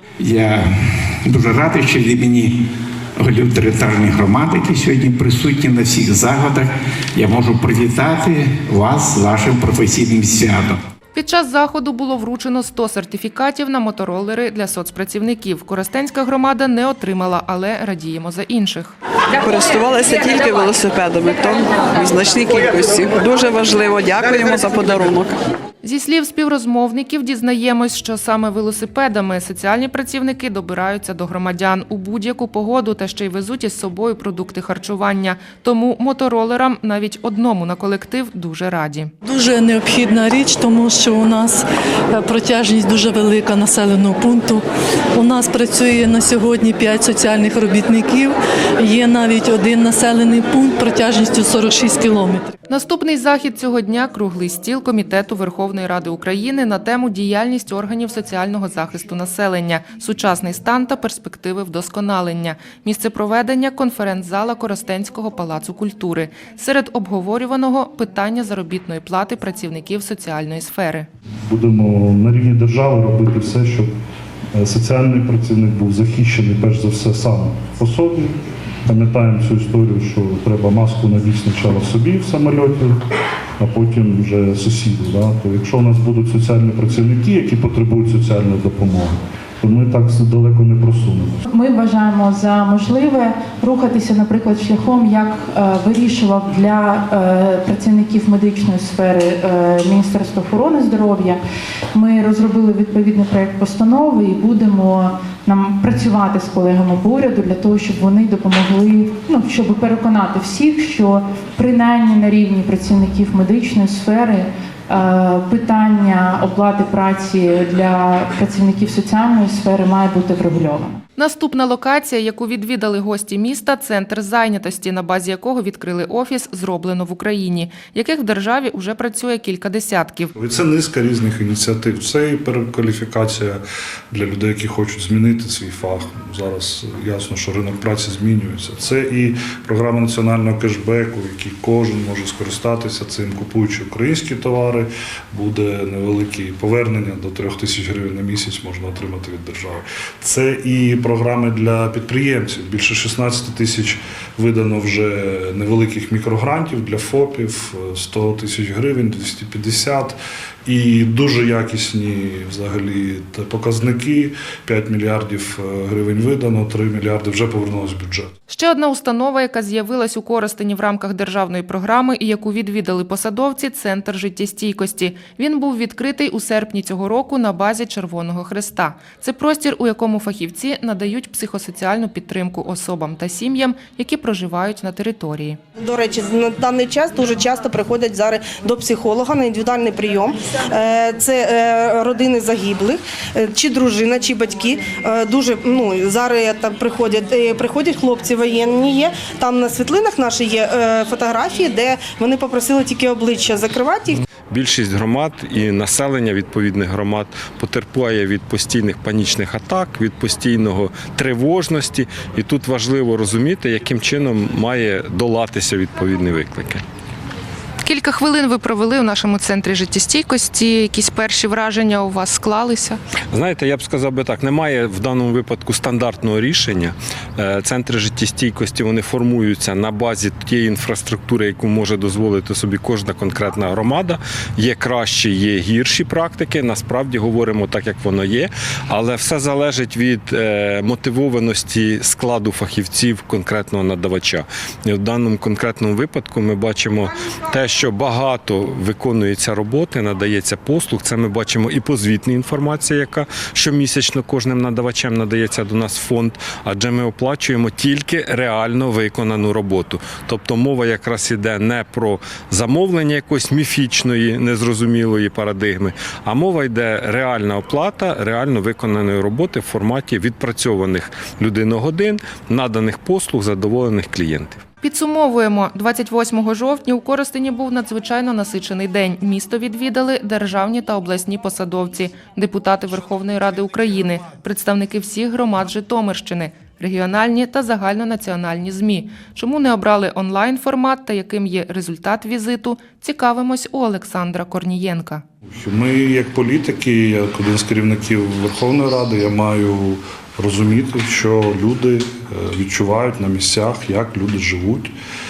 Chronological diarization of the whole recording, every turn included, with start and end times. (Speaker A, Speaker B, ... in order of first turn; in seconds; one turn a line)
Speaker A: 0.2-10.8
Speaker B: 11.1-18.9
Speaker C: 19.4-25.4
Speaker B: 25.8-39.1
Speaker D: 39.2-44.6
Speaker D: 45.1-52.5
Speaker B: 52.7-71.1
Speaker E: 71.5-73.9
Speaker E: 74.5-83.0
Speaker E: 83.6-91.5
Speaker F: 91.5-101.4
Speaker F: 101.9-121.0
Speaker B: 121.2-130.3
Speaker E: 130.4-168.3
Speaker B: 168.5-185.6
Speaker G: 185.8-204.1
Speaker H: 204.4-216.8
Speaker B: 217.8-223.0
Speaker H: 223.3-274.6
Speaker B: 274.8-295.2
Speaker E: 295.5-304.9